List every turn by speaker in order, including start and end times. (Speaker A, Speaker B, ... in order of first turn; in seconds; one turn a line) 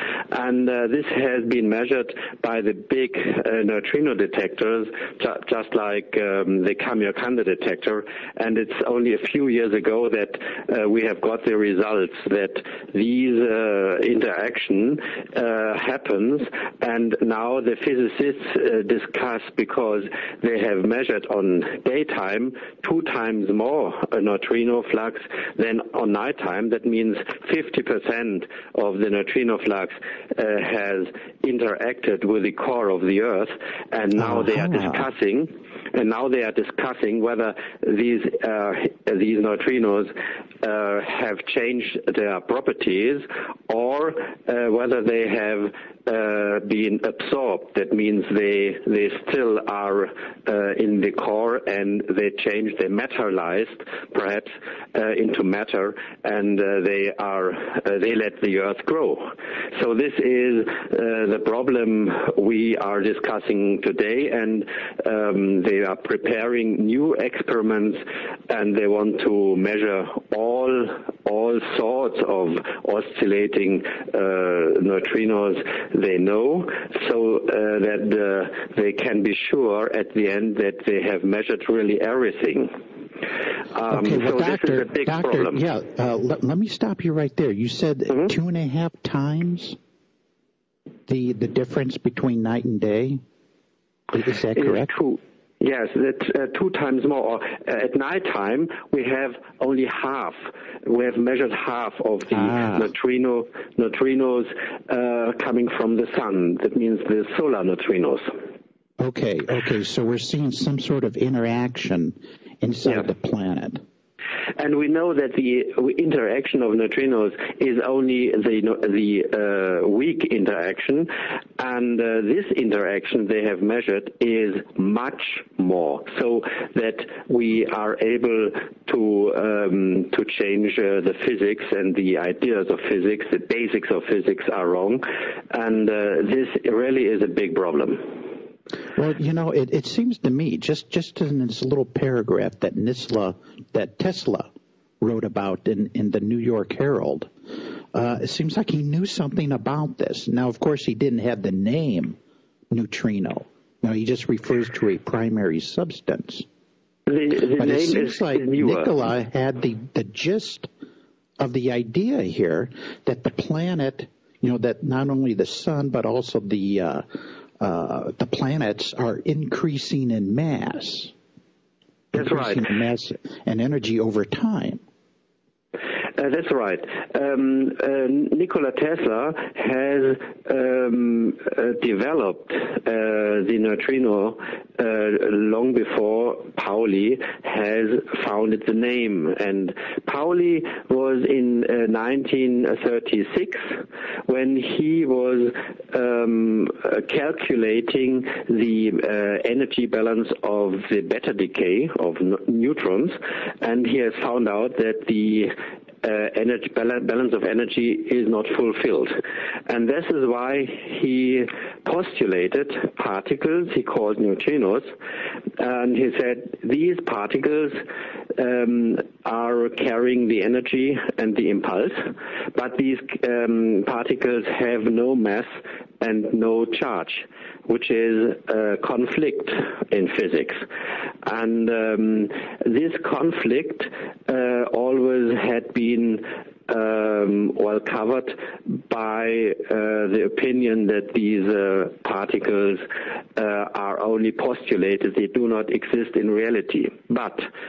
Speaker A: 0.3-40.1
Speaker B: 34.1-35.1
Speaker A: 40.6-82.7
Speaker A: 83.7-85.6
Speaker B: 83.9-89.8
Speaker B: 91.1-93.2
Speaker B: 94.1-94.9
Speaker A: 94.5-108.3
Speaker B: 102.3-102.9
Speaker B: 109.0-113.8
Speaker A: 114.5-138.3
Speaker B: 138.9-144.5
Speaker B: 145.0-147.3
Speaker B: 147.9-152.2
Speaker B: 152.7-156.4
Speaker A: 157.1-159.0
Speaker B: 157.6-160.7
Speaker B: 161.4-167.0
Speaker B: 167.6-171.1
Speaker A: 172.1-172.7
Speaker B: 172.1-174.8
Speaker A: 176.2-193.6
Speaker A: 194.3-205.5
Speaker A: 206.0-209.1
Speaker A: 209.7-214.8
Speaker A: 215.6-217.8
Speaker A: 218.3-230.6
Speaker A: 231.2-242.8
Speaker A: 243.3-247.5